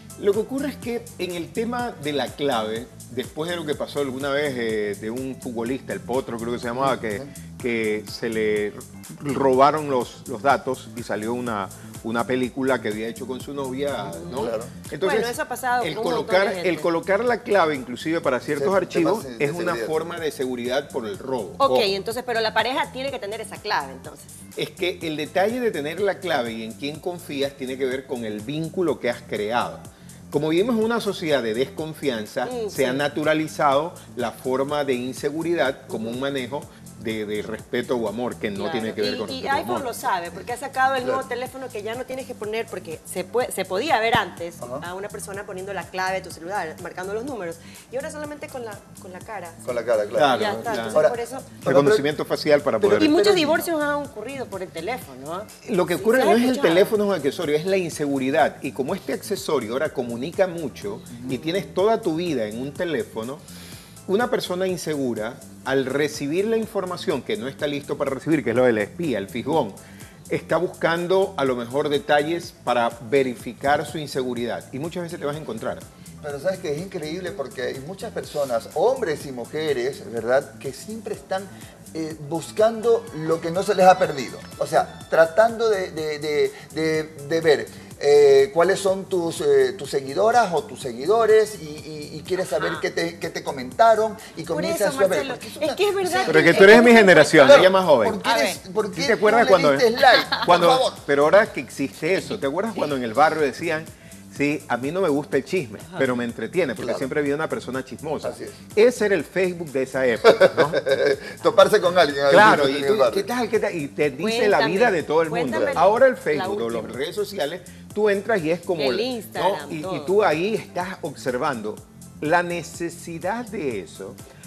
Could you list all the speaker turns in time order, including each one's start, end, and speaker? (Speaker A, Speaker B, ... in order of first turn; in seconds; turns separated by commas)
Speaker A: 0.2-21.9, Speaker B: 7.0-7.2, Speaker C: 14.1-16.9, Speaker B: 14.4-14.7, Speaker B: 18.6-19.9, Speaker C: 21.6-24.3, Speaker A: 24.6-40.0, Speaker C: 32.4-33.0, Speaker C: 35.9-36.2, Speaker C: 38.5-49.6, Speaker B: 49.6-52.0, Speaker A: 50.2-51.1, Speaker C: 50.3-51.5, Speaker A: 51.6-53.2, Speaker C: 52.8-57.0, Speaker B: 52.9-53.7, Speaker A: 55.6-63.4, Speaker A: 64.1-69.8, Speaker A: 70.3-75.8, Speaker B: 76.2-101.0, Speaker C: 94.5-97.7, Speaker A: 96.3-98.2, Speaker A: 98.9-110.8, Speaker B: 106.8-107.1, Speaker B: 108.2-108.6, Speaker B: 110.3-113.3, Speaker A: 112.3-124.2, Speaker C: 114.2-117.0, Speaker C: 118.7-120.2